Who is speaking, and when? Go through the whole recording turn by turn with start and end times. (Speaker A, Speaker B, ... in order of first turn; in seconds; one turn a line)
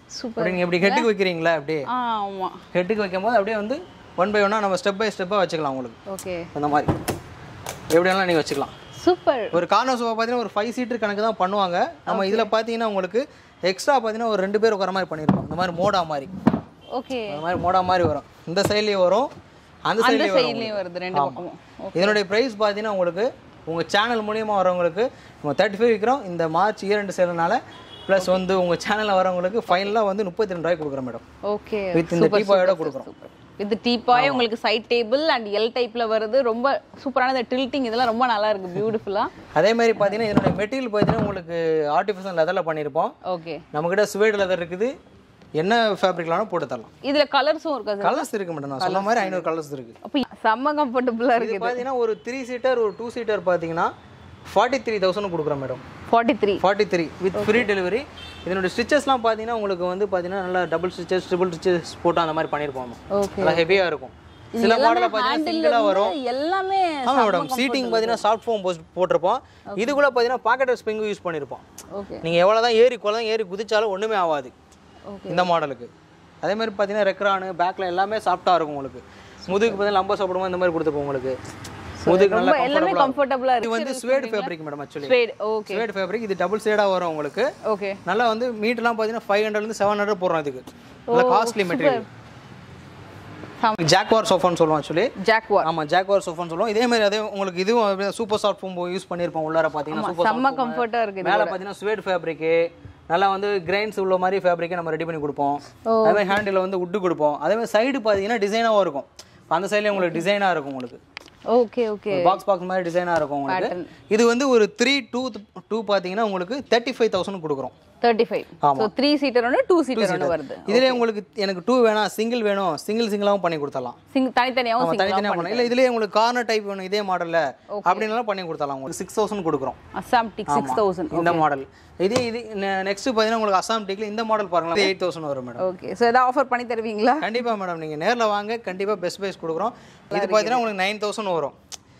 Speaker A: 0.1-1.1
Speaker B: 0.4-1.9
Speaker A: 1.9-2.6
Speaker B: 2.7-6.0
Speaker A: 6.1-6.5
Speaker B: 6.5-6.9
Speaker B: 7.9-8.7
Speaker A: 9.0-9.6
Speaker B: 9.5-16.3
Speaker A: 12.1-12.5
Speaker A: 16.9-17.4
Speaker B: 17.3-19.3
Speaker B: 19.9-21.4
Speaker A: 20.0-22.2
Speaker B: 21.9-31.2
Speaker A: 31.4-39.3
Speaker B: 31.9-33.1
Speaker B: 34.1-34.5
Speaker B: 39.5-43.1
Speaker A: 43.2-43.6
Speaker B: 43.7-45.0
Speaker B: 45.6-46.9
Speaker A: 47.0-48.3
Speaker B: 48.0-50.0
Speaker A: 48.8-49.5
Speaker A: 50.0-51.8
Speaker B: 51.4-53.9
Speaker B: 54.5-55.8
Speaker A: 56.1-56.6
Speaker B: 56.6-66.2
Speaker A: 57.4-57.7
Speaker A: 63.1-63.8
Speaker A: 64.5-68.2
Speaker B: 67.1-71.6
Speaker A: 71.9-72.2
Speaker B: 72.2-74.5
Speaker A: 75.1-75.5
Speaker B: 75.3-75.9
Speaker B: 76.4-81.4
Speaker A: 79.5-79.8
Speaker A: 82.0-85.9
Speaker B: 82.1-85.2
Speaker B: 85.7-87.5
Speaker A: 87.6-88.0
Speaker B: 88.0-92.1
Speaker A: 91.1-92.0
Speaker B: 93.8-95.1
Speaker A: 95.2-95.7
Speaker B: 95.6-111.0
Speaker A: 99.9-101.6
Speaker A: 105.9-106.3
Speaker A: 111.5-112.4
Speaker B: 112.1-117.7
Speaker A: 113.5-113.9
Speaker A: 118.0-121.0
Speaker B: 118.6-118.9
Speaker B: 120.0-124.0
Speaker A: 124.1-125.7
Speaker B: 124.8-129.8
Speaker A: 127.8-128.1
Speaker A: 129.9-131.5
Speaker B: 130.5-135.6
Speaker A: 135.6-137.3
Speaker B: 137.2-141.5
Speaker A: 140.1-140.6